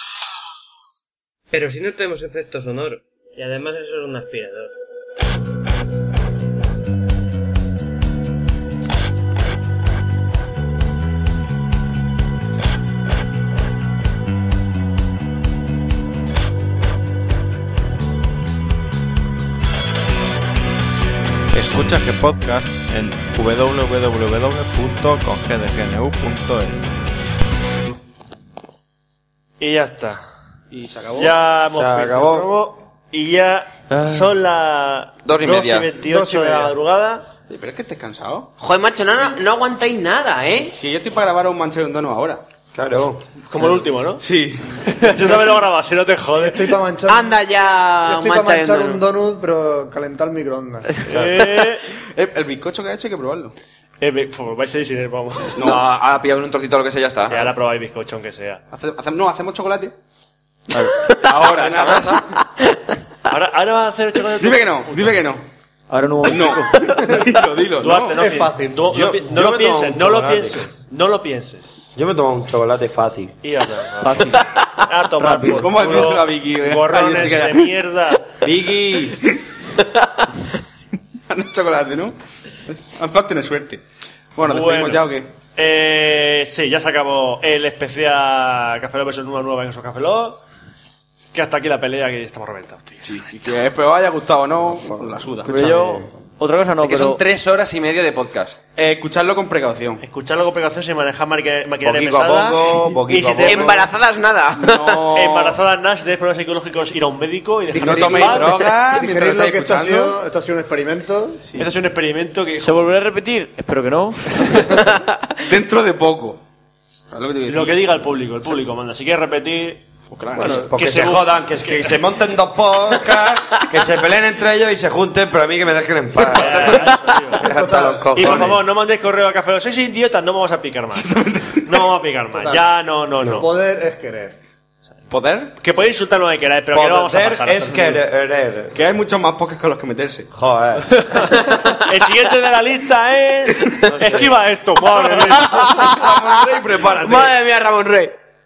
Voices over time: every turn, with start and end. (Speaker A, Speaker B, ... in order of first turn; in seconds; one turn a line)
Speaker A: 1.5-4.7
Speaker B: 21.5-26.9
Speaker C: 29.6-30.2
Speaker D: 30.7-31.3
Speaker C: 31.2-37.2
Speaker E: 31.7-32.5
Speaker F: 33.9-34.3
Speaker G: 35.2-35.9
Speaker H: 36.0-36.7
Speaker D: 37.5-38.5
Speaker I: 38.6-40.7
Speaker D: 40.7-42.4
Speaker E: 42.7-43.2
Speaker C: 43.5-44.2
Speaker D: 44.2-44.8
Speaker C: 44.8-46.8
Speaker H: 45.2-45.5
Speaker H: 46.4-47.4
Speaker I: 47.1-49.0
Speaker H: 48.0-50.9
Speaker C: 51.1-51.9
Speaker E: 51.1-51.3
Speaker D: 52.0-53.5
Speaker C: 54.0-55.6
Speaker D: 55.5-55.8
Speaker G: 55.6-57.4
Speaker C: 57.3-58.6
Speaker D: 58.7-59.9
Speaker F: 60.7-61.0
Speaker D: 61.2-62.3
Speaker G: 61.2-62.1
Speaker C: 63.3-65.2
Speaker D: 64.4-65.4
Speaker F: 65.9-66.9
Speaker D: 66.2-68.2
Speaker C: 67.8-71.7
Speaker H: 68.1-68.8
Speaker E: 68.9-70.6
Speaker E: 72.0-73.4
Speaker C: 73.4-78.3
Speaker F: 74.0-74.5
Speaker F: 75.2-75.7
Speaker D: 75.5-77.7
Speaker E: 78.4-79.2
Speaker D: 81.3-82.2
Speaker D: 82.7-83.8
Speaker D: 84.4-85.3
Speaker C: 84.4-90.4
Speaker C: 91.3-93.0
Speaker D: 93.0-95.5
Speaker E: 95.4-96.1
Speaker F: 95.5-97.2
Speaker G: 96.8-98.6
Speaker D: 98.8-100.0
Speaker C: 100.0-103.8
Speaker E: 101.8-103.8
Speaker I: 103.5-105.0
Speaker D: 104.6-105.6
Speaker C: 105.2-108.6
Speaker H: 107.7-111.5
Speaker D: 107.8-110.2
Speaker C: 111.6-112.9
Speaker F: 112.6-114.8
Speaker D: 115.5-116.4
Speaker D: 117.1-117.9
Speaker C: 117.5-119.8
Speaker D: 120.1-120.7
Speaker H: 120.4-120.7
Speaker E: 120.4-126.8
Speaker C: 120.5-122.0
Speaker C: 126.2-127.5
Speaker H: 127.4-128.5
Speaker E: 127.4-128.6
Speaker C: 128.2-133.5
Speaker D: 130.9-131.9
Speaker H: 132.3-132.7
Speaker H: 133.3-134.4
Speaker D: 135.1-135.6
Speaker C: 135.6-138.0
Speaker E: 136.7-138.8
Speaker D: 138.7-140.3
Speaker E: 140.3-140.9
Speaker C: 140.9-145.9
Speaker E: 143.9-144.4
Speaker D: 145.4-147.4
Speaker I: 145.4-146.1
Speaker I: 146.9-148.1